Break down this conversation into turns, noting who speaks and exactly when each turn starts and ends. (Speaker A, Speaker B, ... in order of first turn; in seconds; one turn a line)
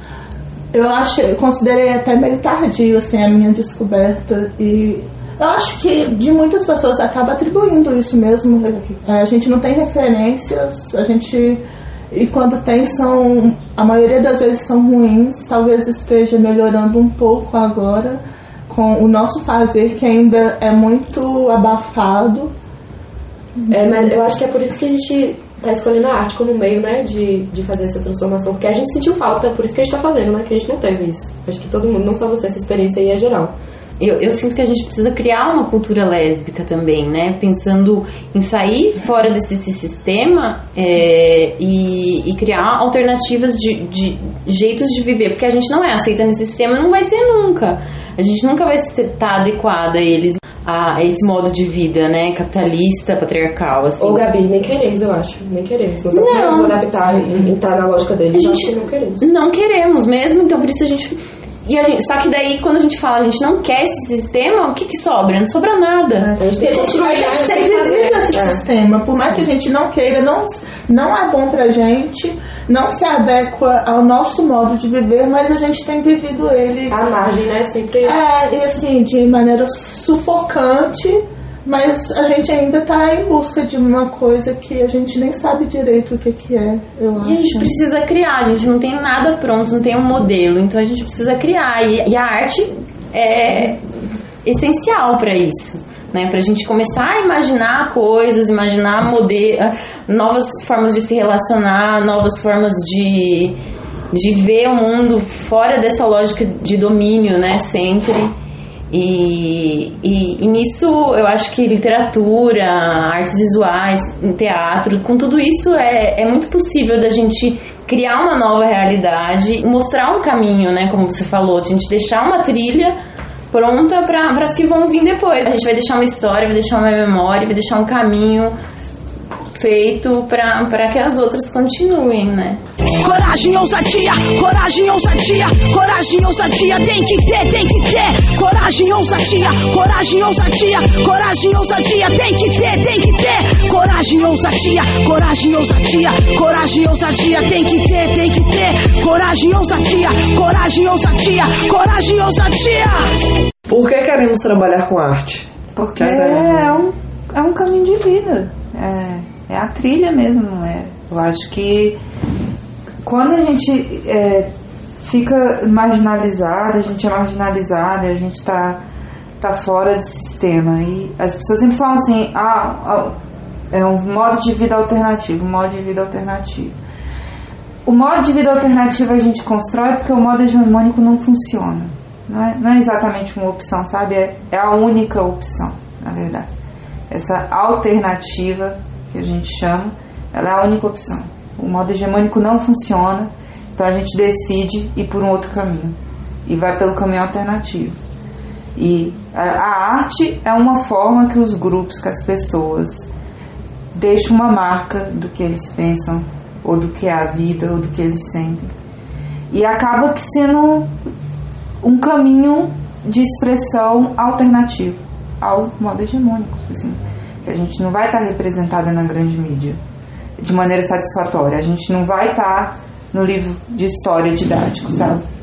Speaker A: 0.7-22.5
Speaker A: 23.6-24.1
Speaker B: 23.7-33.5
Speaker C: 34.0-54.3
Speaker B: 54.0-59.2
Speaker A: 56.1-56.6
Speaker C: 56.4-56.7
Speaker C: 58.3-66.3
Speaker A: 66.2-77.0
Speaker B: 66.4-68.6
Speaker B: 76.9-78.2
Speaker A: 78.0-87.7
Speaker C: 87.2-93.8
Speaker C: 94.4-103.6
Speaker C: 104.1-108.3
Speaker C: 108.9-123.0
Speaker C: 123.5-128.5
Speaker C: 129.5-132.6
Speaker D: 133.0-153.1
Speaker E: 153.7-156.8
Speaker F: 155.8-162.0
Speaker F: 163.0-164.5
Speaker F: 165.0-168.8
Speaker F: 169.4-173.2
Speaker F: 173.7-176.7
Speaker F: 177.8-186.5
Speaker F: 187.1-198.0
Speaker F: 198.8-203.1
Speaker F: 203.9-208.7
Speaker F: 209.5-211.0
Speaker F: 211.8-219.8
Speaker F: 220.4-225.2